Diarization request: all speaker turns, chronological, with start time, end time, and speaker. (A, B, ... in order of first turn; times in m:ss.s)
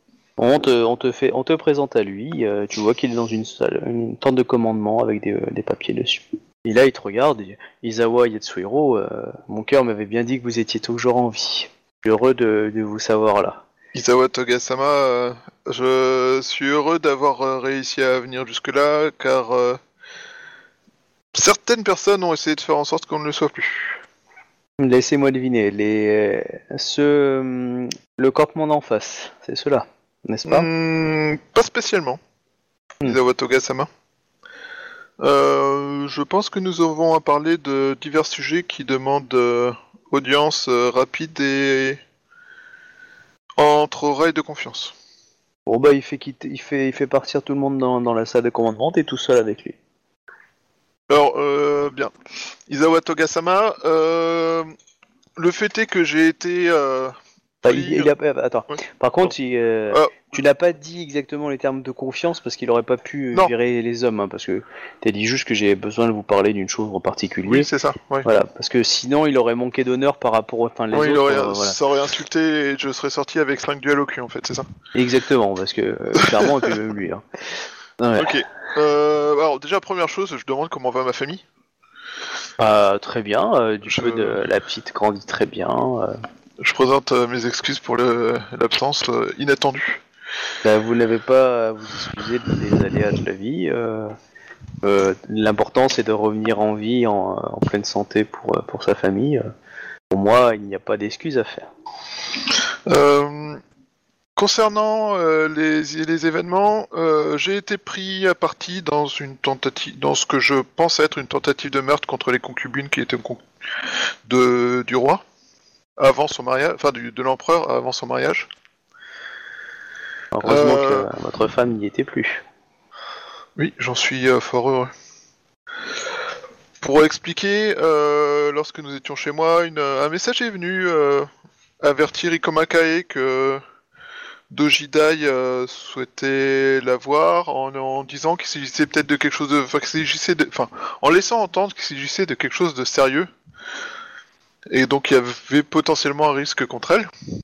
0:00.4-0:13.6 A
0:13.9-0:19.8 B
0:21.3-0:24.0 B
0:24.8-0:30.7 A
0:30.5-0:32.2 B
0:33.0-0:33.9 B
0:35.2-0:42.0 B
0:43.6-0:44.9 B
0:45.7-0:49.8 A
0:51.1-0:52.1 B
0:52.7-0:54.7 B
0:55.4-0:58.1 B
0:57.6-1:07.7 A
0:59.9-1:00.3 B
1:07.4-1:08.3 B
1:08.2-1:11.8 A
1:10.9-1:14.7 B
1:15.0-1:17.2 A
1:18.0-1:18.4 A
1:18.2-1:21.4 B
1:22.6-1:26.2 A
1:23.9-1:24.4 B
1:26.6-1:30.0 B
1:30.6-1:34.2 A
1:34.8-1:39.4 A
1:40.1-1:41.7 A
1:42.9-1:43.6 B
1:44.4-1:53.4 B
1:54.3-1:55.2 B
1:56.0-1:58.5 B
2:00.3-2:02.4 A
2:00.5-2:01.1 B
2:03.6-2:04.9 B
2:06.8-2:11.3 B
2:11.8-2:13.6 B
2:14.5-2:23.3 B
2:24.7-2:27.1 B